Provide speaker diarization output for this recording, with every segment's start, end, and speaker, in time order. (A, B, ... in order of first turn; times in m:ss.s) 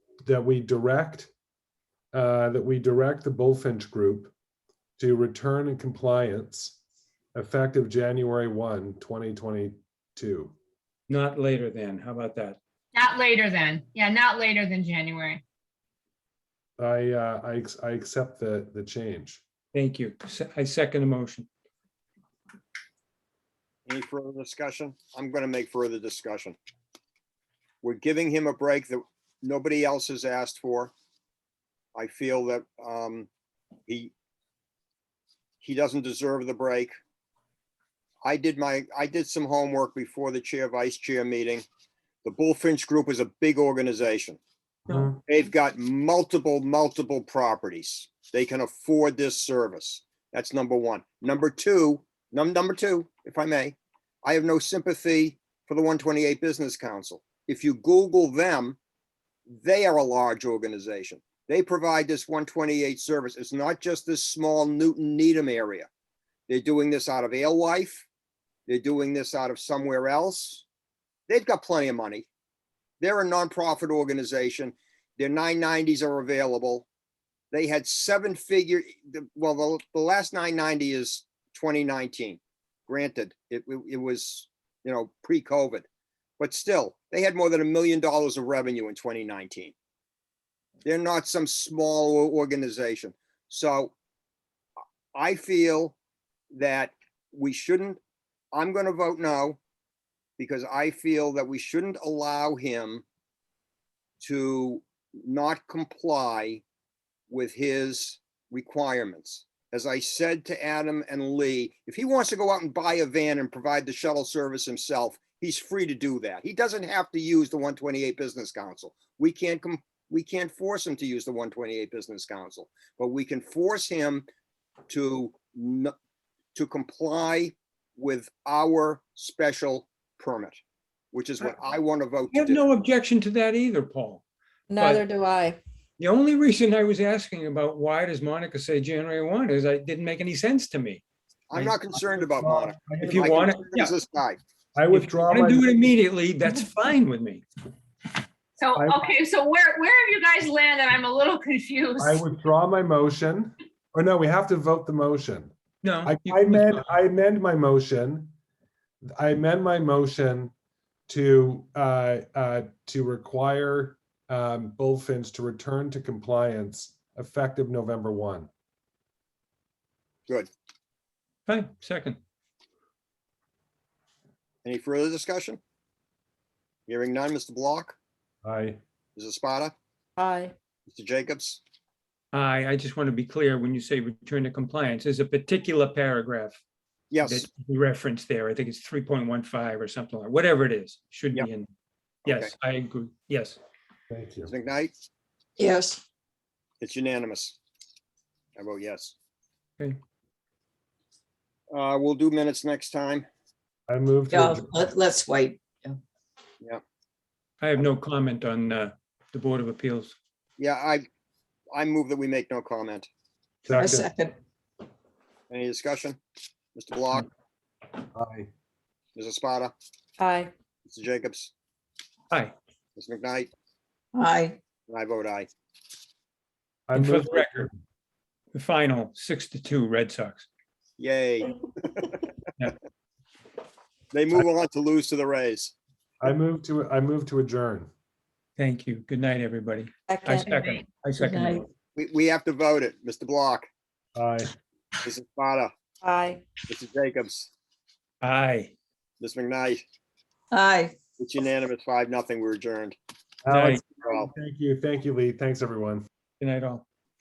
0:00.2-0:01.3 A
0:02.1-0:04.3 A
0:05.0-0:06.8 A
0:07.4-0:10.6 A
0:11.1-0:12.6 B
0:12.9-0:15.4 C
0:16.8-0:19.4 A
0:19.7-0:21.5 B
0:23.9-0:26.6 D
0:27.8-0:30.9 D
0:32.0-0:33.3 D
0:33.9-0:34.1 D
0:35.6-0:37.0 D
0:38.2-0:41.6 D
0:42.2-0:44.4 D
0:45.2-0:58.8 D
0:59.5-1:05.9 D
1:06.5-1:08.1 D
1:08.7-1:10.7 D
1:11.3-1:12.3 D
1:13.0-1:16.9 D
1:17.5-1:25.9 D
1:26.4-1:29.7 D
1:30.8-1:33.9 D
1:35.2-1:36.0 D
1:36.5-1:38.0 D
1:38.5-1:39.6 D
1:40.4-1:43.0 D
1:44.2-1:46.6 D
1:47.3-2:04.3 D
2:04.9-2:05.9 D
2:06.6-2:10.6 D
2:11.1-2:12.6 D
2:12.3-2:14.2 B
2:14.7-2:15.6 E
2:14.8-2:15.0 B
2:16.0-2:21.0 B
2:21.5-2:24.4 D
2:21.6-2:23.3 A
2:23.0-2:23.9 B
2:24.8-2:25.7 A
2:24.9-2:27.4 B
2:28.6-2:32.2 C
2:28.8-2:29.1 A
2:32.0-2:35.5 A
2:35.8-2:36.9 B
2:36.0-2:38.3 A
2:39.0-2:40.5 A
2:41.1-2:48.5 A
2:51.5-2:52.2 B
2:54.6-2:55.6 D
2:56.9-2:58.0 D
2:58.4-2:58.8 A
2:59.2-2:59.7 D
3:00.2-3:00.5 E
3:00.9-3:01.6 D
3:02.3-3:06.6 B
3:07.1-3:07.5 D
3:07.2-3:11.7 B
3:12.2-3:13.6 B
3:12.3-3:12.5 D
3:14.1-3:14.5 A
3:14.5-3:14.9 D
3:15.6-3:16.0 E
3:16.8-3:17.6 D
3:18.6-3:19.2 D
3:21.7-3:23.3 D
3:23.9-3:24.7 A
3:24.3-3:26.0 E
3:27.6-3:30.2 B
3:30.6-3:31.1 D
3:31.7-3:33.1 D
3:33.6-3:34.1 A
3:33.7-3:34.4 E
3:35.5-3:36.2 D
3:36.8-3:37.3 D
3:38.2-3:38.5 A
3:39.2-3:39.7 D
3:40.2-3:40.5 E
3:40.8-3:41.5 D
3:43.0-3:43.5 D
3:44.1-3:44.6 E
3:44.9-3:45.5 D
3:46.9-3:47.7 A
3:46.9-3:47.7 B
3:48.5-3:50.5 B
3:51.0-3:52.2 D
3:54.1-3:55.7 D
3:56.2-3:57.9 A
3:58.6-4:01.7 B
4:00.1-4:01.6 E
4:02.0-4:03.7 D
4:04.2-4:04.5 A
4:05.0-4:05.7 D
4:06.0-4:06.4 E
4:06.7-4:07.5 D
4:08.2-4:08.8 B
4:09.2-4:09.8 D
4:10.5-4:11.0 E
4:11.2-4:13.0 D
4:13.4-4:16.0 A
4:13.5-4:13.8 B
4:14.0-4:14.3 D
4:16.4-4:16.8 B